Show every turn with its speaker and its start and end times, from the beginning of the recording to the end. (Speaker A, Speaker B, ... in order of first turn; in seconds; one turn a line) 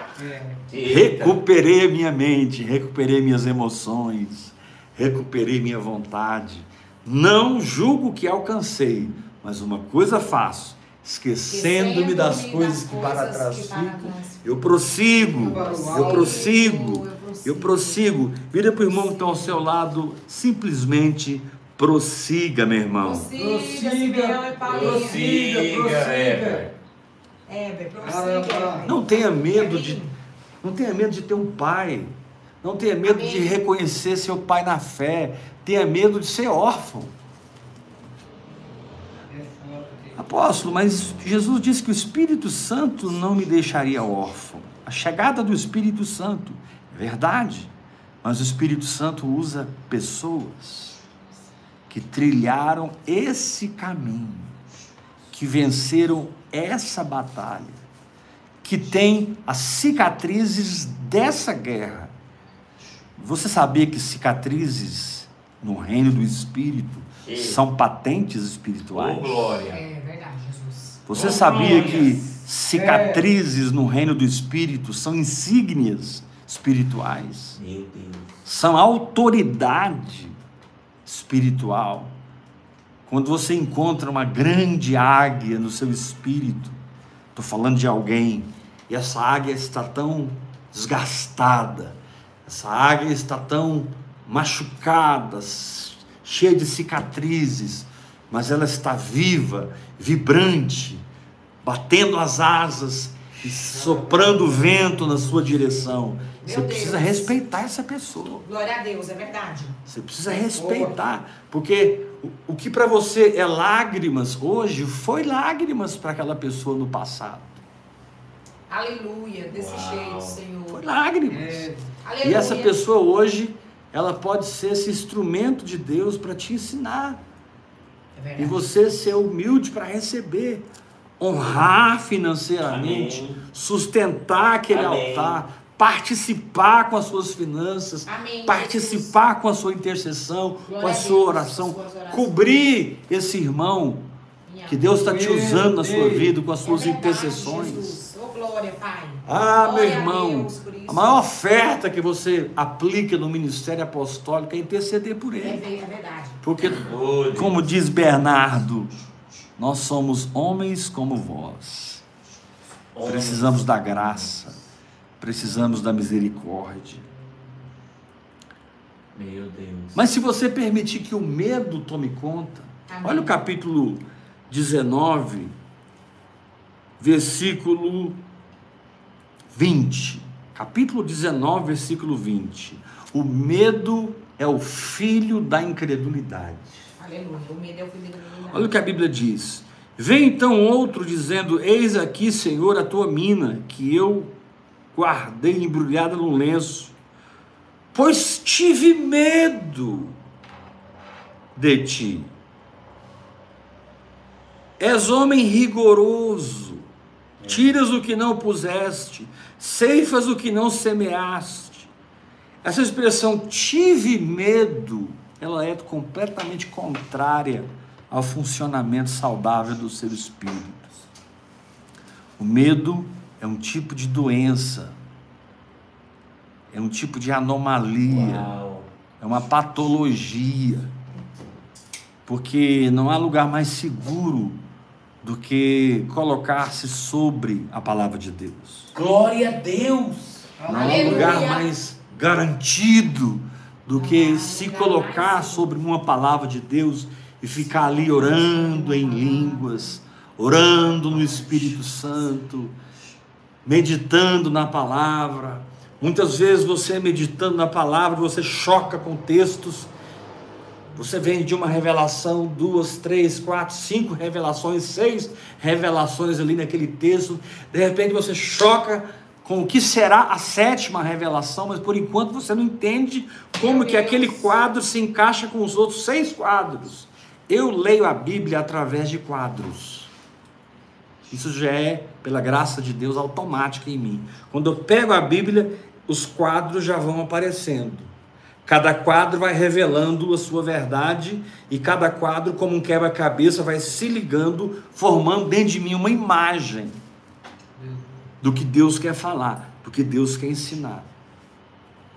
Speaker A: 0.2-0.7
Speaker B: 0.7-1.4
Speaker C: 0.8-23.3
Speaker D: 11.5-14.5
Speaker A: 15.3-16.5
Speaker D: 15.3-19.6
Speaker D: 23.0-25.3
Speaker A: 23.4-26.7
Speaker B: 24.7-26.7
Speaker D: 27.5-30.1
Speaker A: 28.0-28.9
Speaker C: 28.9-30.0
Speaker C: 30.6-37.1
Speaker D: 33.0-33.6
Speaker A: 39.3-40.2
Speaker C: 40.2-47.7
Speaker C: 48.2-51.0
Speaker C: 51.9-54.6
Speaker C: 55.3-57.8
Speaker C: 58.6-62.1
Speaker C: 63.2-69.6
Speaker B: 67.2-67.6
Speaker B: 68.9-69.8
Speaker D: 69.7-71.0
Speaker C: 71.1-77.6
Speaker B: 71.1-72.3
Speaker A: 72.7-73.3
Speaker B: 77.6-78.3
Speaker C: 78.5-80.4
Speaker C: 81.1-82.1
Speaker C: 83.1-86.8
Speaker C: 87.3-101.0
Speaker C: 101.6-108.4
Speaker A: 103.5-105.8
Speaker D: 106.4-107.4
Speaker D: 108.4-109.8
Speaker C: 109.9-117.6
Speaker A: 110.5-111.0
Speaker D: 118.7-120.8
Speaker B: 119.5-120.4
Speaker C: 120.7-121.7
Speaker A: 121.3-122.0
Speaker D: 122.0-122.8
Speaker C: 122.2-127.2
Speaker D: 128.2-128.7
Speaker C: 128.4-130.7
Speaker C: 131.2-144.1
Speaker B: 132.7-133.4
Speaker B: 134.7-135.4
Speaker D: 138.1-139.1
Speaker D: 140.7-142.7
Speaker D: 144.5-144.9
Speaker C: 144.7-148.0
Speaker A: 144.9-146.4
Speaker D: 146.6-151.3
Speaker C: 149.2-155.6
Speaker D: 155.4-156.4
Speaker C: 156.4-158.9
Speaker B: 156.6-157.6
Speaker C: 159.6-162.0
Speaker B: 162.9-164.3
Speaker C: 163.0-164.6
Speaker C: 165.2-167.1
Speaker B: 169.1-170.1
Speaker C: 169.9-175.6
Speaker D: 172.9-173.4
Speaker C: 177.0-178.2
Speaker C: 179.5-186.8
Speaker D: 187.0-188.8
Speaker C: 188.5-194.3
Speaker C: 194.9-196.9
Speaker C: 197.9-200.2
Speaker C: 201.6-202.3
Speaker C: 204.8-206.9
Speaker C: 207.5-211.9
Speaker C: 212.6-220.9
Speaker C: 222.4-225.0
Speaker C: 226.7-228.5
Speaker B: 228.1-228.9
Speaker C: 229.2-230.9
Speaker C: 232.3-234.6
Speaker C: 235.2-238.9
Speaker B: 238.9-240.5
Speaker A: 240.6-241.5
Speaker C: 240.7-252.8
Speaker D: 240.7-241.7
Speaker D: 243.9-245.7
Speaker D: 247.7-249.9
Speaker D: 250.9-251.6
Speaker C: 253.7-259.9
Speaker C: 260.9-280.1
Speaker D: 273.6-274.6
Speaker C: 281.3-288.1
Speaker C: 288.7-297.0
Speaker A: 297.8-298.3
Speaker C: 298.4-301.1